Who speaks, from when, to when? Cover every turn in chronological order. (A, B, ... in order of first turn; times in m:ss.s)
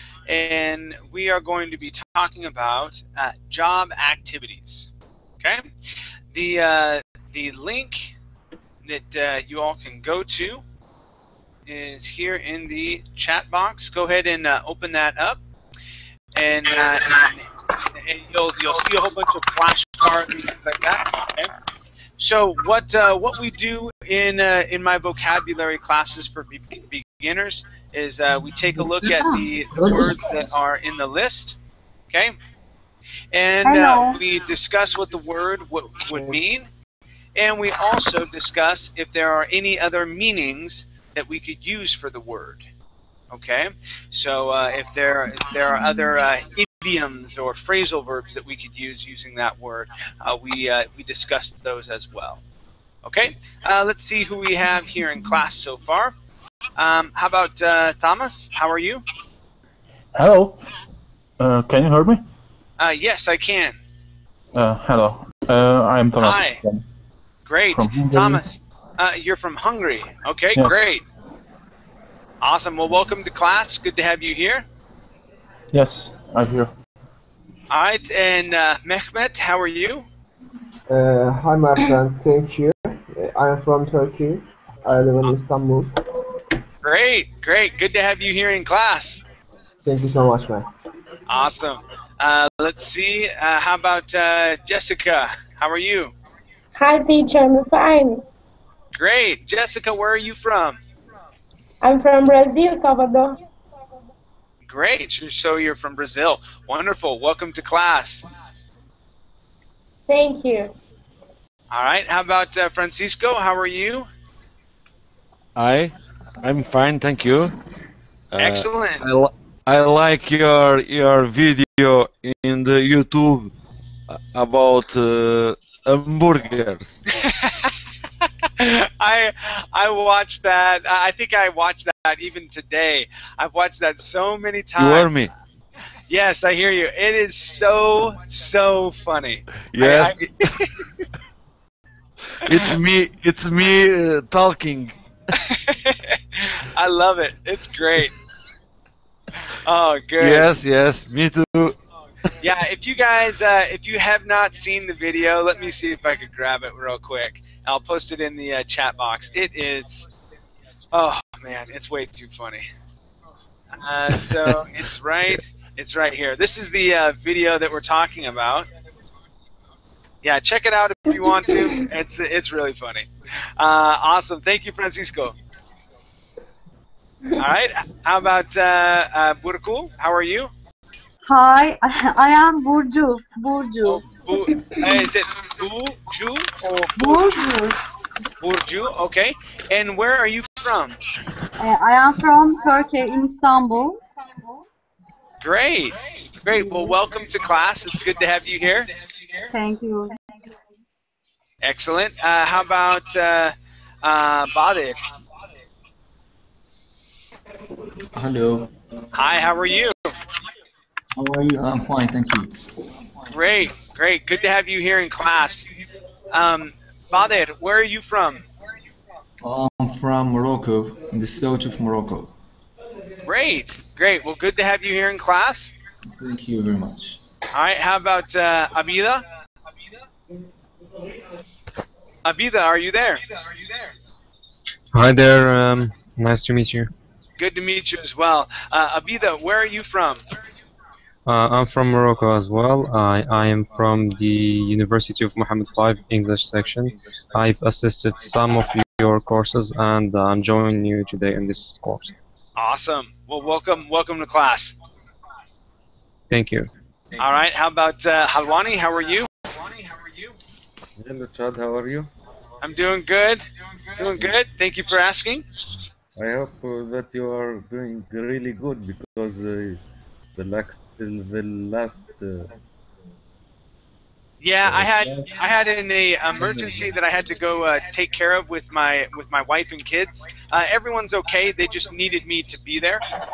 0:00.3-0:08.2 A
0:08.8-0:10.6 A
0:11.7-0:15.4 A
0:16.4-0:17.4 A
0:18.0-0:21.5 A
0:22.2-0:31.6 A
0:29.0-0:30.4 B
0:33.3-0:36.7 A
0:33.6-0:34.2 B
0:37.4-0:42.7 A
0:43.3-0:52.4 A
0:53.0-0:56.2 A
0:56.8-0:59.0 A
1:00.2-1:00.6 C
1:01.4-1:02.2 C
1:02.8-1:03.8 A
1:04.6-1:06.8 C
1:06.2-1:06.6 A
1:07.4-1:11.0 A
1:07.8-1:08.4 C
1:12.4-1:14.6 A
1:15.7-1:16.7 C
1:17.7-1:20.0 A
1:20.9-1:26.0 D
1:26.8-1:29.2 A
1:29.8-1:30.7 D
1:31.3-1:36.1 A
1:36.8-1:38.2 E
1:38.9-1:40.8 A
1:41.8-1:43.4 E
1:44.6-1:48.2 A
1:50.1-1:50.7 E
1:51.7-1:54.1 A
1:55.6-1:57.5 F
1:58.3-2:03.5 F
1:58.4-1:59.0 A
2:04.1-2:07.0 F
2:07.2-2:07.7 A
2:08.4-2:15.2 A
2:14.8-2:15.3 F
2:16.1-2:20.7 A
2:19.7-2:20.3 F
2:22.4-2:25.0 F
2:25.4-2:28.1 A
2:29.6-2:30.5 A
2:30.2-2:31.8 F
2:32.4-2:40.1 A
2:40.9-2:42.6 A
2:43.8-2:48.7 A
2:50.2-2:53.1 A
2:53.6-2:55.4 A
2:57.4-3:00.5 A
3:01.2-3:04.0 B
3:03.8-3:07.6 A
3:07.0-3:07.8 B
3:08.4-3:11.0 A
3:11.6-3:14.0 B
3:15.4-3:18.9 A
3:19.5-3:20.1 B
3:21.6-3:25.0 A
3:28.1-3:28.7 G
3:29.1-3:30.0 A
3:31.2-3:32.6 G
3:33.3-3:35.7 A
3:36.3-3:38.4 A
3:39.4-3:42.3 G
3:43.2-3:45.7 A
3:46.2-3:47.2 G
3:47.5-3:49.2 A
3:52.2-3:53.2 A
3:54.9-3:56.9 H
3:57.4-4:00.2 A
4:01.3-4:12.2 H
4:12.6-4:14.8 A
4:16.3-4:16.7 H
4:17.2-4:19.5 A
4:21.0-4:22.1 I
4:22.6-4:25.5 A
4:26.2-4:29.8 I
4:30.4-4:32.5 I
4:34.4-4:43.0 A